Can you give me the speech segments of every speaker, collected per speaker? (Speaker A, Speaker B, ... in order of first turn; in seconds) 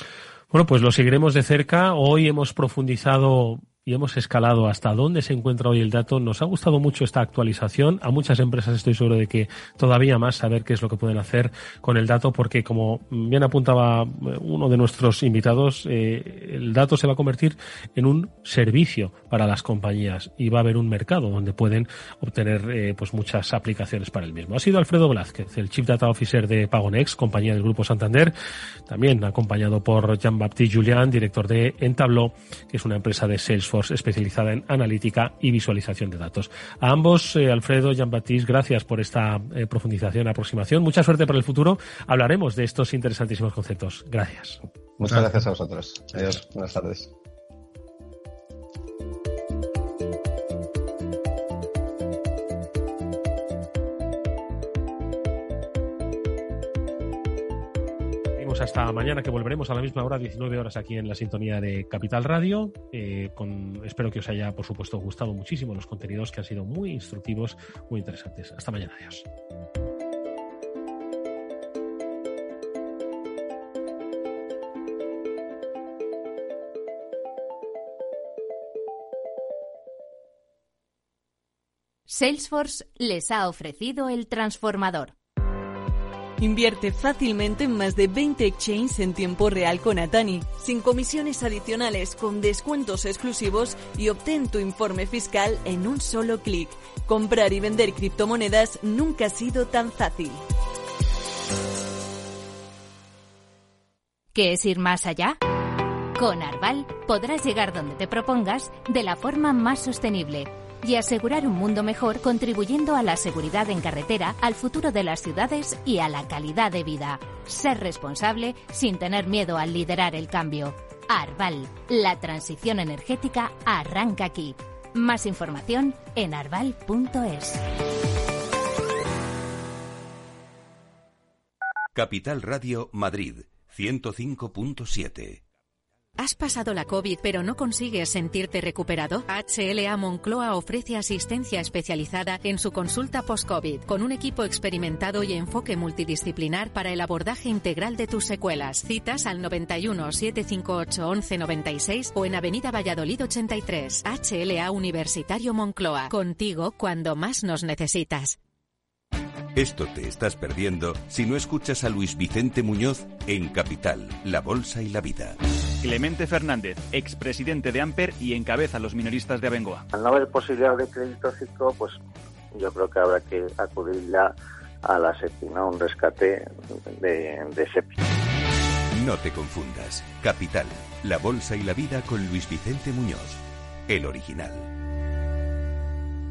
Speaker A: 0.5-28.3, 28.9-44.6, 58.4-69.2
Speaker B: 45.0-47.1
Speaker C: 82.1-85.1, 104.3-105.4, 106.1-127.6
Speaker D: 86.4-100.4
Speaker E: 131.9-135.4, 159.5-165.4, 178.9-184.7
Speaker F: 136.2-158.4
Speaker G: 165.8-169.8
Speaker H: 169.9-172.0, 172.6-174.3, 174.8-176.5, 177.0-177.9